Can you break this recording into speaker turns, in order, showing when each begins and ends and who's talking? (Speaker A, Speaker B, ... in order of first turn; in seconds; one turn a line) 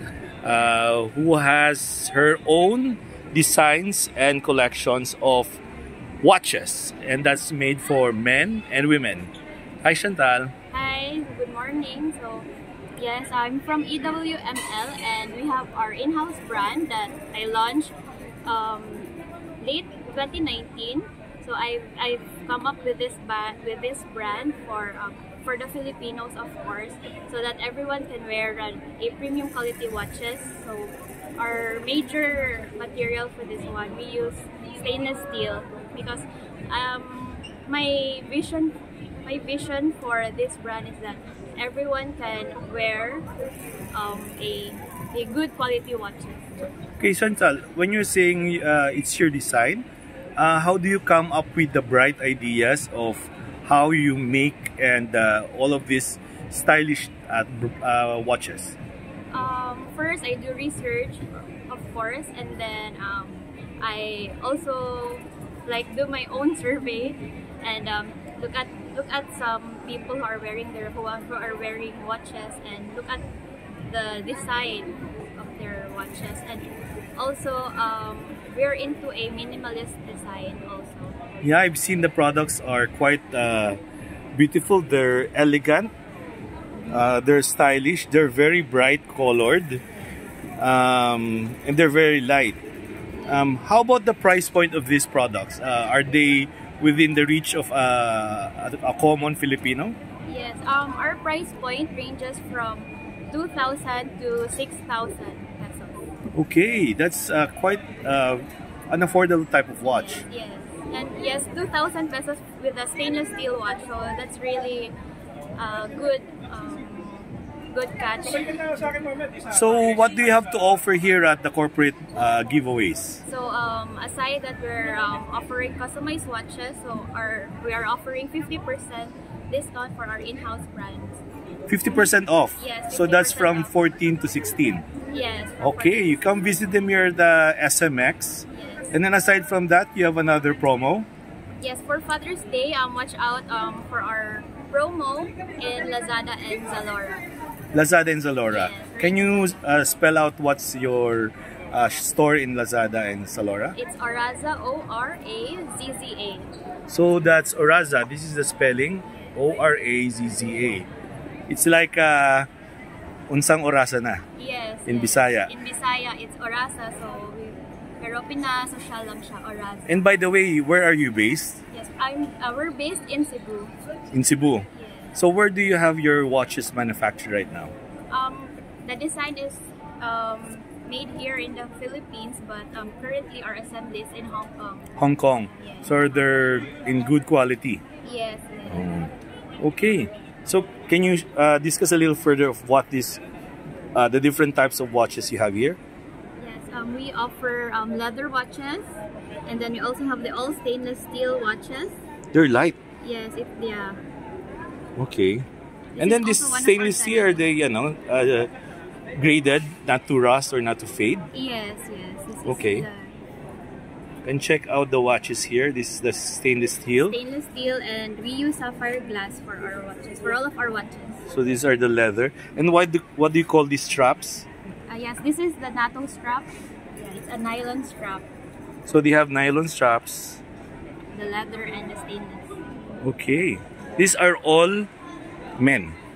Speaker A: 0.4-5.6
Speaker A: 6.2-9.3
Speaker A: 9.8-10.5
Speaker B: 10.7-43.3
Speaker B: 43.9-46.5
Speaker A: 47.0-49.8
Speaker A: 50.4-58.8
Speaker B: 59.3-73.2
Speaker B: 73.9-81.2
Speaker A: 81.4-83.8
Speaker A: 84.3-85.9
Speaker A: 86.9-89.8
Speaker A: 90.6-92.6
Speaker B: 93.2-93.4
Speaker A: 93.3-99.9
Speaker B: 100.2-106.1
Speaker A: 106.3-110.2
Speaker B: 109.8-114.9
Speaker B: 115.5-118.8
Speaker A: 119.5-123.2
Speaker B: 123.2-131.2
Speaker A: 131.7-134.8
Speaker B: 132.6-133.7
Speaker B: 135.0-136.2
Speaker A: 135.6-141.1
Speaker B: 138.5-138.9
Speaker B: 141.6-147.2
Speaker A: 147.7-153.8
Speaker B: 148.5-149.6
Speaker B: 153.8-156.5
Speaker A: 156.9-160.9
Speaker A: 161.5-162.5
Speaker A: 163.3-164.2
Speaker B: 164.4-170.0
Speaker A: 164.8-165.5
Speaker A: 169.9-171.6
Speaker B: 171.7-173.7
Speaker A: 174.1-177.7
Speaker B: 174.7-175.2
Speaker B: 178.1-184.9
Speaker A: 184.9-187.8
Speaker B: 185.5-185.9
Speaker B: 188.0-188.9
Speaker A: 188.7-193.2
Speaker A: 193.9-195.8
Speaker B: 196.4-202.0
Speaker A: 202.3-202.8
Speaker B: 203.0-204.0
Speaker A: 205.0-205.4
Speaker B: 205.9-207.5
Speaker A: 206.0-208.5
Speaker A: 209.1-211.3
Speaker B: 211.3-213.2
Speaker A: 212.4-212.8
Speaker A: 214.2-217.2
Speaker B: 217.1-221.2
Speaker A: 221.3-224.5
Speaker B: 224.9-228.3
Speaker A: 228.8-230.4
Speaker B: 231.1-232.6
Speaker A: 233.0-234.9
Speaker A: 235.6-235.9